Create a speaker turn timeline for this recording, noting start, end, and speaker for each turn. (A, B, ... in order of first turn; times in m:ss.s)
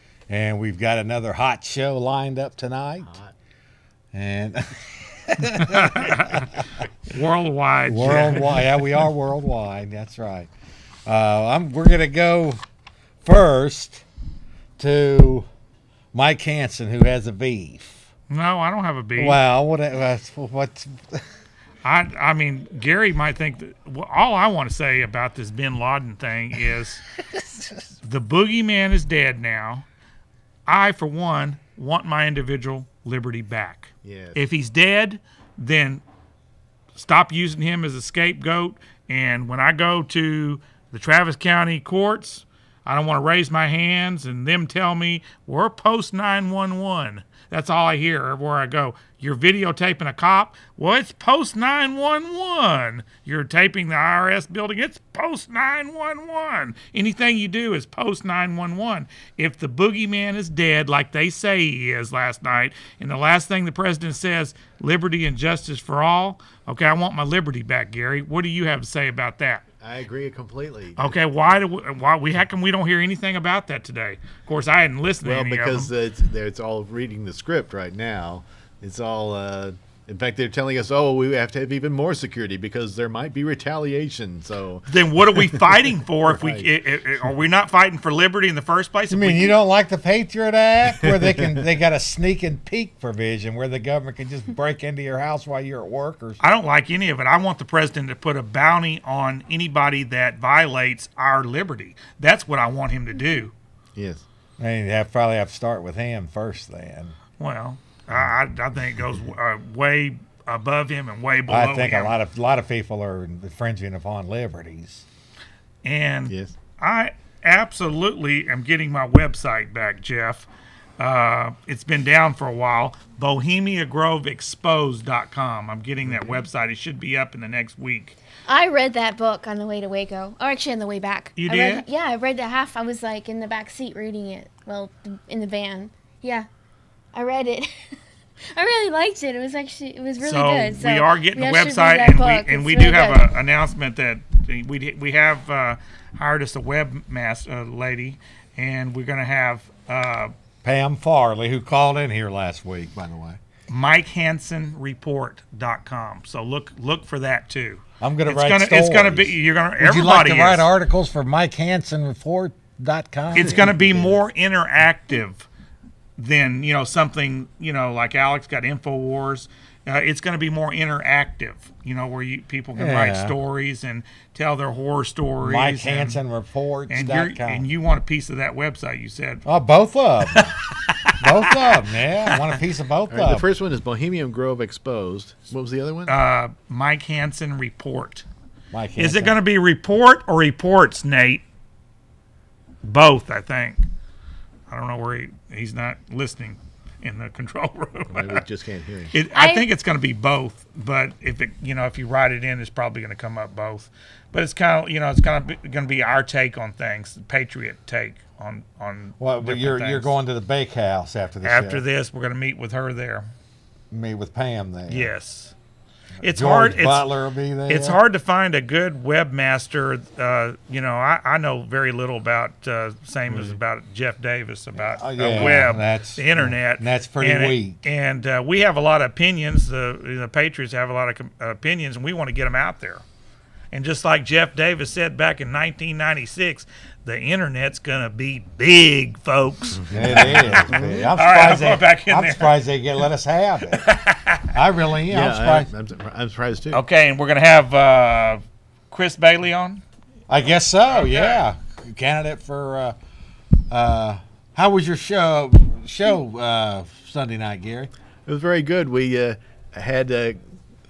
0:00.3-0:03.2 A
0:03.0-0:03.3 B
0:04.1-0:06.6 A
0:05.6-0:06.6 C
0:07.1-0:08.8 C
0:07.9-0:10.5 A
0:11.0-0:12.6 A
0:13.2-0:14.0 A
0:14.8-0:15.5 A
0:16.1-0:18.1 A
0:18.3-0:19.4 C
0:19.1-0:21.2 A
0:21.8-0:27.0 C
0:28.0-0:29.8 C
0:30.7-0:36.0 C
0:34.0-0:34.4 B
0:36.9-1:09.6 C
1:09.8-1:11.2 B
1:11.0-1:15.9 C
1:15.2-1:25.6 B
1:24.9-1:29.5 C
1:26.3-1:26.7 B
1:29.1-1:36.4 A
1:30.9-1:31.4 B
1:36.4-1:43.5 C
1:44.0-1:44.2 B
1:44.6-1:47.1 A
1:47.4-1:52.1 C
1:51.5-1:55.0 A
1:55.8-2:08.2 C
1:56.3-1:56.6 B
2:06.0-2:06.4 B
2:08.5-2:16.5 D
2:11.4-2:11.8 C
2:17.1-2:18.0 D
2:18.5-2:23.3 D
2:20.2-2:30.3 C
2:30.6-2:33.4 A
2:33.7-2:40.7 C
2:38.0-2:44.2 A
2:43.3-2:45.5 C
2:46.2-2:56.2 C
2:52.8-2:53.4 A
2:55.4-2:57.7 A
2:56.9-2:59.4 C
2:59.4-3:00.5 A
3:00.2-3:01.7 C
3:01.2-3:03.4 A
3:03.1-3:06.1 B
3:06.1-3:08.2 C
3:08.7-3:09.4 A
3:09.0-3:11.4 C
3:12.8-3:13.8 C
3:14.7-3:18.4 C
3:18.1-3:19.1 B
3:19.1-3:30.1 C
3:19.3-3:19.7 D
3:29.2-3:31.8 A
3:31.4-3:33.3 C
3:33.9-3:35.1 A
3:34.9-3:35.5 C
3:36.2-3:37.1 C
3:36.2-3:38.0 A
3:37.7-3:53.0 C
3:44.7-3:47.9 A
3:53.7-4:02.6 C
3:59.8-4:01.1 B
3:59.9-4:03.9 A
4:03.7-4:04.6 C
4:04.5-4:05.7 A
4:05.1-4:06.8 B
4:06.7-4:09.8 C
4:10.3-4:13.0 A
4:10.8-4:11.5 C
4:13.7-4:17.9 A
4:18.2-4:20.4 B